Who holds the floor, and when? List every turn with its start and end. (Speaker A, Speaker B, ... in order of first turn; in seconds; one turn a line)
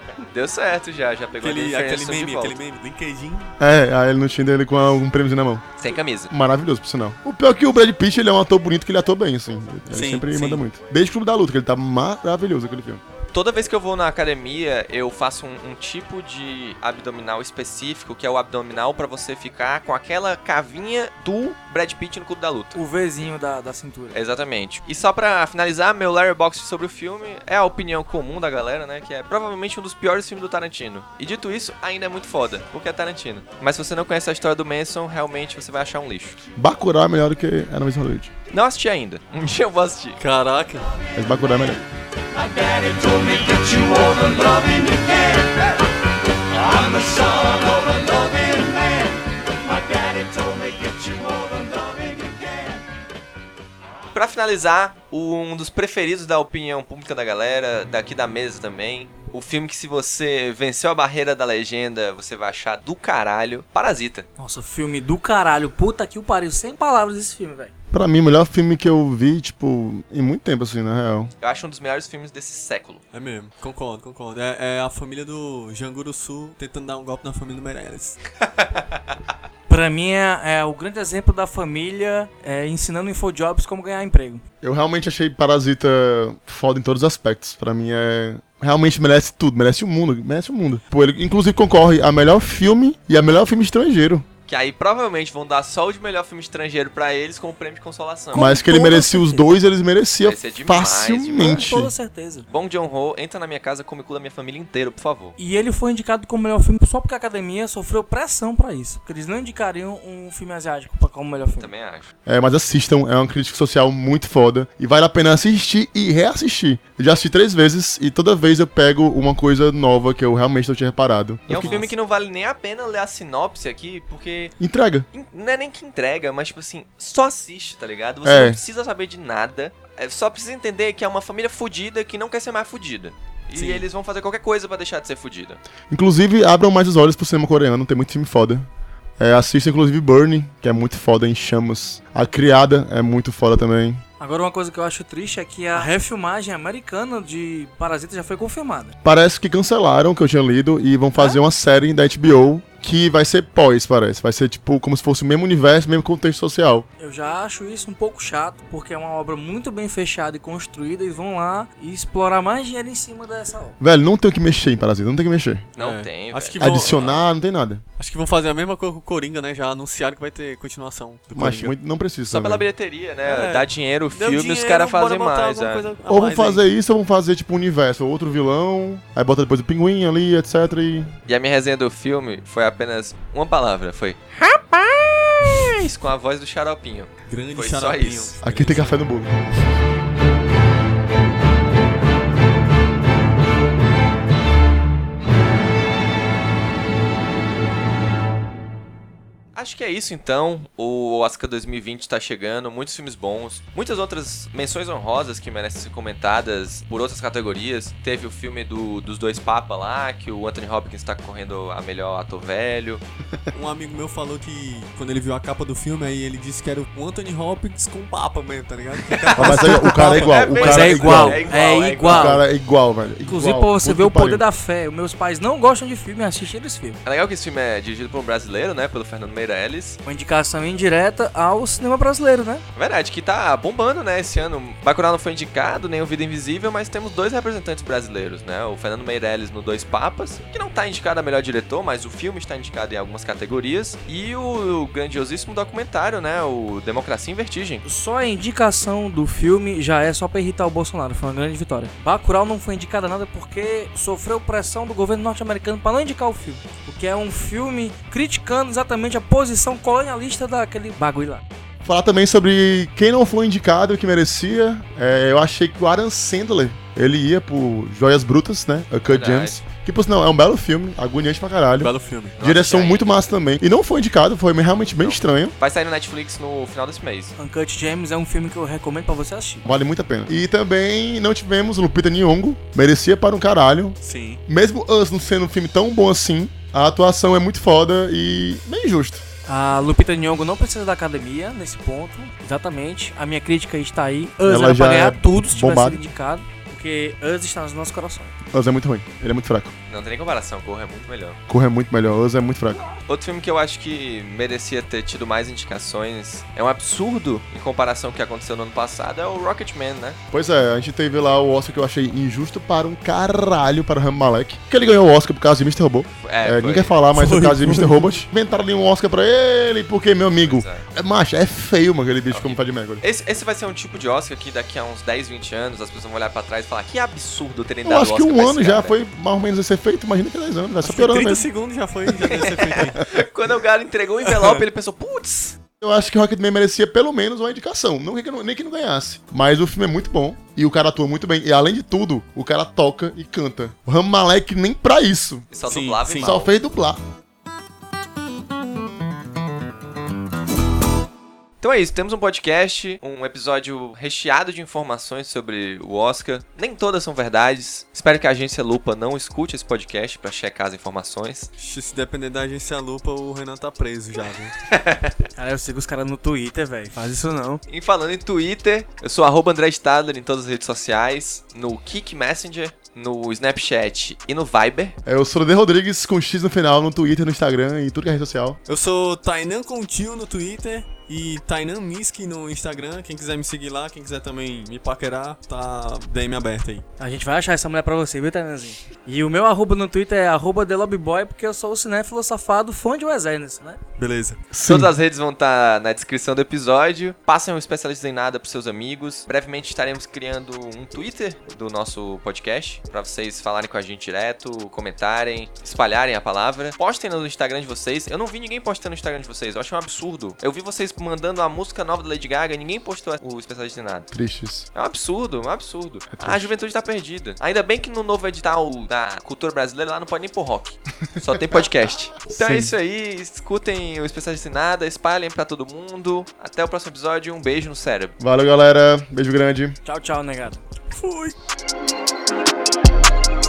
Speaker A: 0.2-2.6
Speaker B: 1.4-3.5
Speaker C: 3.6-5.8
Speaker A: 5.8-6.3
Speaker C: 6.3-13.0
Speaker B: 9.9-10.6
Speaker A: 13.3-22.8
Speaker D: 22.8-24.2
Speaker A: 24.1-36.4
Speaker C: 36.6-38.3
Speaker A: 38.5-40.2
Speaker B: 40.2-40.9
Speaker C: 41.1-41.8
Speaker A: 42.6-45.4
Speaker A: 46.6-49.0
Speaker A: 49.9-52.3
Speaker A: 54.1-64.3
Speaker D: 64.4-67.7
Speaker C: 67.9-71.3
Speaker A: 71.4-73.0
Speaker B: 73.1-78.2
Speaker A: 78.4-79.0
Speaker D: 79.7-84.4
Speaker C: 84.6-94.3
Speaker A: 94.5-98.6
Speaker C: 98.3-101.9
Speaker D: 98.3-99.6
Speaker A: 100.2-101.7
Speaker D: 101.3-102.5
Speaker A: 102.5-105.4
Speaker D: 105.4-111.7
Speaker A: 111.6-112.1
Speaker C: 112.3-121.9
Speaker A: 121.5-124.5
Speaker C: 124.6-125.1
Speaker A: 125.1-135.6
Speaker C: 128.2-128.6
Speaker B: 133.6-133.8
Speaker C: 135.9-138.7
Speaker C: 139.2-144.0
Speaker D: 144.2-149.0
Speaker C: 149.0-156.9
Speaker D: 157.0-163.8
Speaker C: 163.8-165.7
Speaker A: 165.8-167.2
Speaker B: 165.8-167.2
Speaker C: 166.6-167.8
Speaker B: 168.0-171.7
Speaker C: 171.3-172.7
Speaker A: 172.3-175.9
Speaker B: 173.2-176.6
Speaker C: 176.1-181.2
Speaker A: 181.3-188.5
Speaker B: 187.3-189.0
Speaker C: 188.4-189.5
Speaker A: 199.6-213.0
Speaker B: 213.5-220.6
Speaker A: 219.1-222.4
Speaker C: 219.3-224.4
Speaker D: 220.6-222.4
Speaker D: 223.3-227.0
Speaker A: 227.1-230.0
Speaker D: 230.1-232.6
Speaker A: 232.8-247.8
Speaker D: 247.8-261.4
Speaker C: 261.8-275.6
Speaker A: 269.1-269.6
Speaker B: 271.8-272.4
Speaker A: 272.4-273.3
Speaker A: 275.0-277.4
Speaker D: 277.4-279.7
Speaker C: 279.6-289.2
Speaker B: 284.0-284.4
Speaker D: 289.5-298.4
Speaker C: 294.4-296.1
Speaker C: 298.5-299.7
Speaker A: 299.9-301.4
Speaker C: 301.5-302.9
Speaker A: 303.1-310.2
Speaker C: 310.3-323.0
Speaker A: 316.2-317.0
Speaker B: 317.1-318.2
Speaker A: 320.4-320.9
Speaker A: 322.3-329.0
Speaker C: 327.9-331.5
Speaker B: 330.8-333.0
Speaker A: 332.2-335.6
Speaker B: 334.3-334.6
Speaker C: 335.8-345.5
Speaker A: 345.5-346.5
Speaker B: 345.7-346.3
Speaker C: 346.1-347.0
Speaker A: 351.6-361.5
Speaker B: 361.6-364.6
Speaker A: 364.7-365.2
Speaker D: 365.4-367.6
Speaker A: 367.7-374.9
Speaker C: 375.1-378.6
Speaker B: 378.7-386.9
Speaker D: 387.0-393.8
Speaker B: 394.0-394.4
Speaker A: 394.5-414.1
Speaker C: 394.6-394.9
Speaker C: 414.1-414.7
Speaker A: 414.7-428.1
Speaker C: 416.1-416.5
Speaker C: 422.4-422.7
Speaker C: 428.2-429.8
Speaker D: 429.9-430.6
Speaker B: 430.9-431.4